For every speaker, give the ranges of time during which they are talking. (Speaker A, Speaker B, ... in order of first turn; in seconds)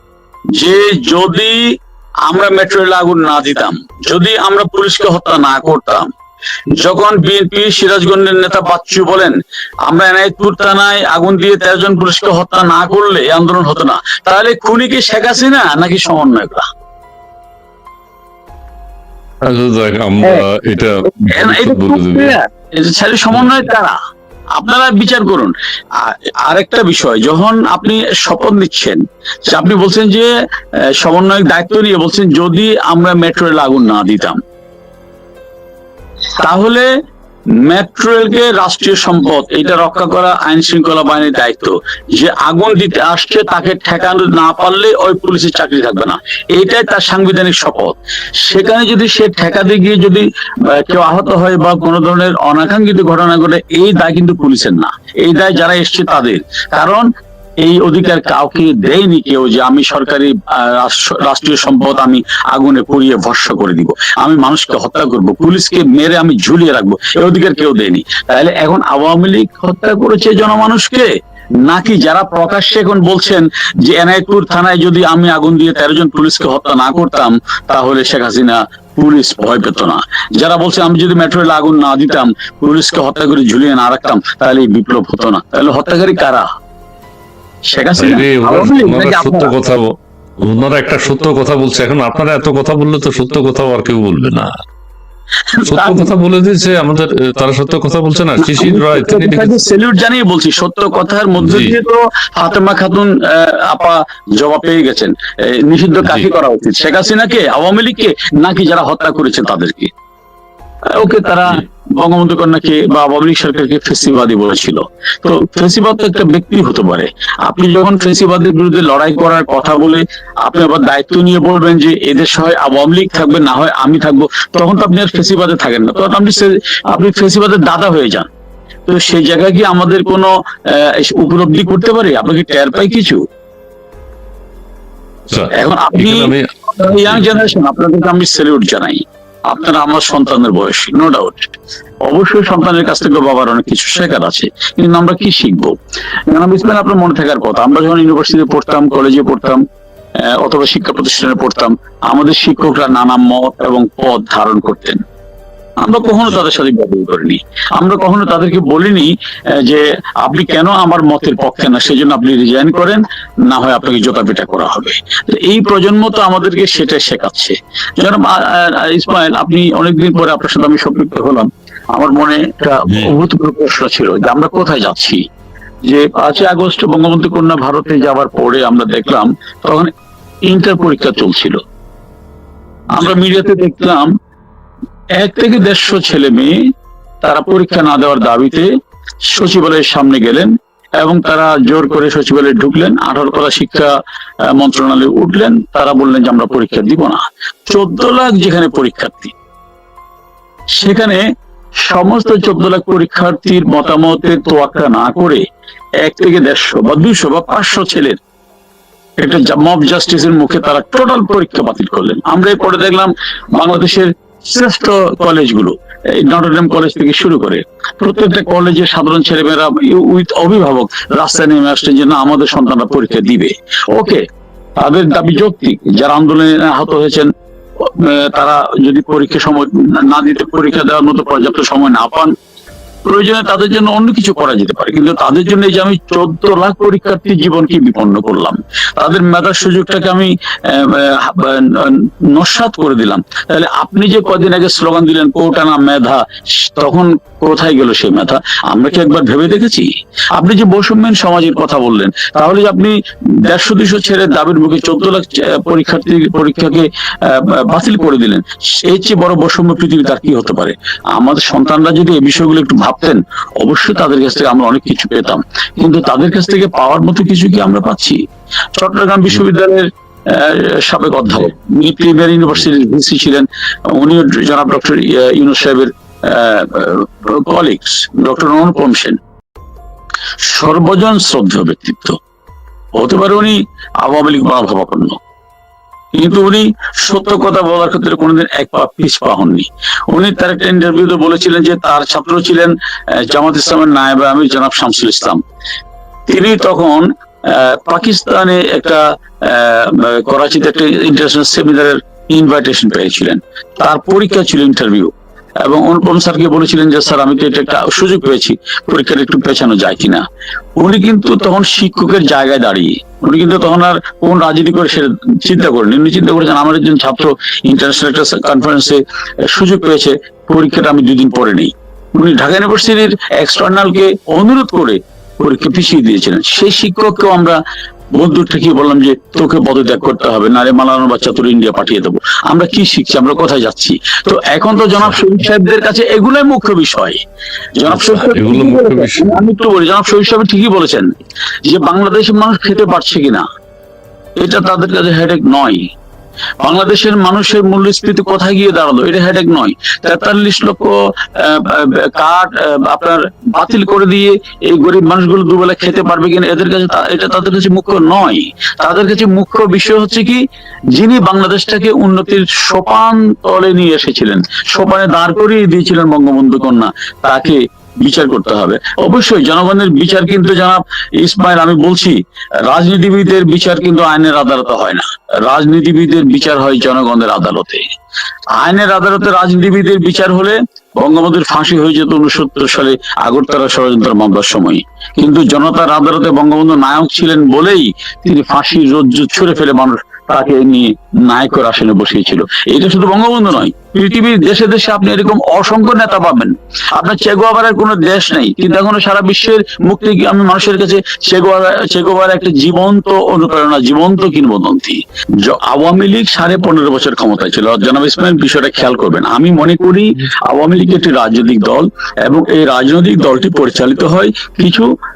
Speaker A: 0.6-1.6, 2.3-6.1, 6.7-16.7, 21.3-24.0, 24.5-30.3, 30.9-34.4, 36.4-36.9, 37.6-57.1, 57.6-71.1, 71.6-86.5, 87.7-89.5, 95.5-96.1, 98.4-109.9, 110.9-128.3, 128.8-133.2, 135.5-145.7, 146.3-149.6, 150.2-155.0, 155.8-175.2, 175.8-179.9, 180.4-181.6, 182.9-184.1, 185.2-186.7, 187.2-188.7, 189.3-193.9, 194.5-199.3, 200.8-201.2, 201.8-205.4, 206.0-208.2, 209.2-224.2, 224.8-232.3, 233.0-268.2, 268.8-279.2, 280.4-282.2, 283.0-285.2, 286.1-295.4, 296.3-310.2, 310.8-327.6, 328.1-337.2, 337.7-341.1, 341.6-343.4, 344.4-345.9, 346.6-360.4, 360.9-377.9, 378.6-414.9
Speaker B: 19.4-22.4, 88.0-94.5, 95.7-99.5, 101.4-101.8, 135.3-137.3, 172.9-173.1, 337.9-339.2